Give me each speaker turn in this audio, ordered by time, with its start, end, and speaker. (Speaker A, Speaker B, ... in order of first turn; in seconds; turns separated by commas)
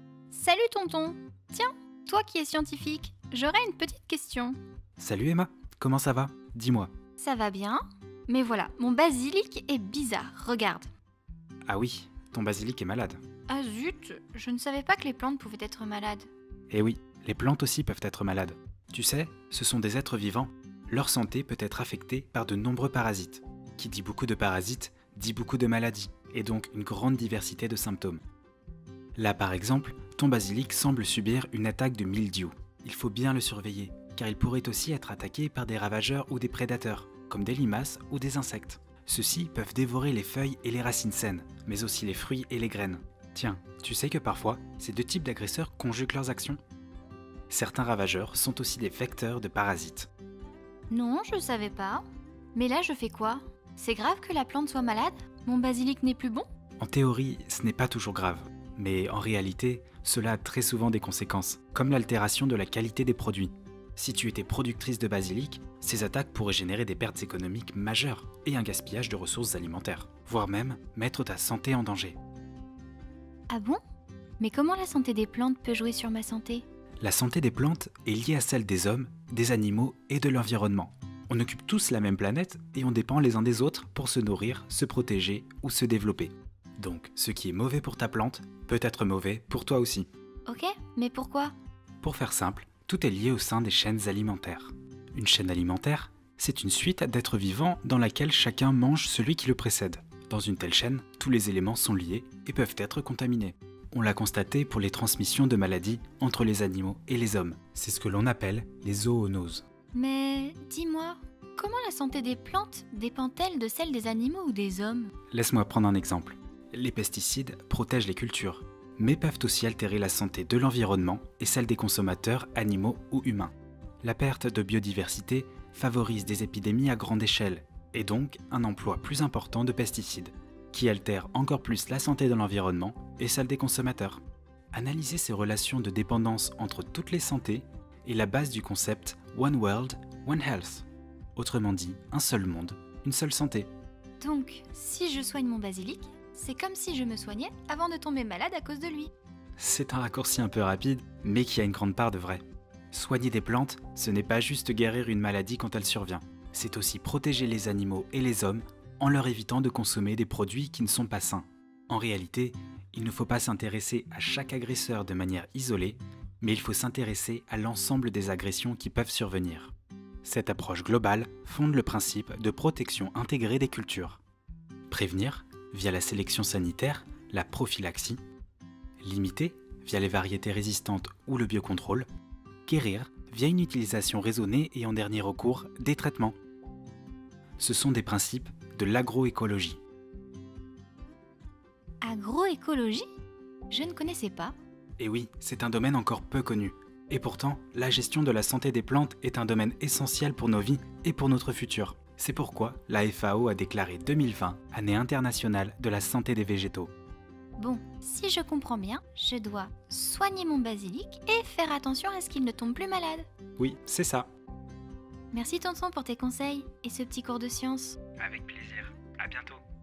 Speaker A: 0.3-4.6, Speaker B: 5.0-6.9, Speaker A: 7.2-10.9, Speaker B: 11.7-13.2, Speaker A: 13.5-16.3, Speaker B: 16.7-28.2, Speaker B: 29.1-46.6, Speaker B: 47.5-50.1, Speaker A: 50.9-56.5, Speaker B: 56.8-72.2, Speaker A: 73.5-73.8, Speaker A: 74.4-76.6, Speaker B: 77.0-90.1, Speaker A: 90.5-91.5, Speaker B: 92.0-109.6, Speaker A: 109.9-115.1, Speaker B: 115.3-143.7, Speaker A: 144.2-149.1, Speaker B: 149.6-174.2, Speaker B: 174.9-178.2, Speaker B: 179.0-182.1, Speaker B: 182.7-186.3, Speaker B: 187.6-189.8, Speaker A: 192.0-193.1, Speaker A: 193.7-194.5, Speaker B: 195.0-206.9, Speaker A: 207.6-213.2, Speaker B: 213.6-214.3, Speaker A: 215.3-218.0, Speaker B: 218.2-219.6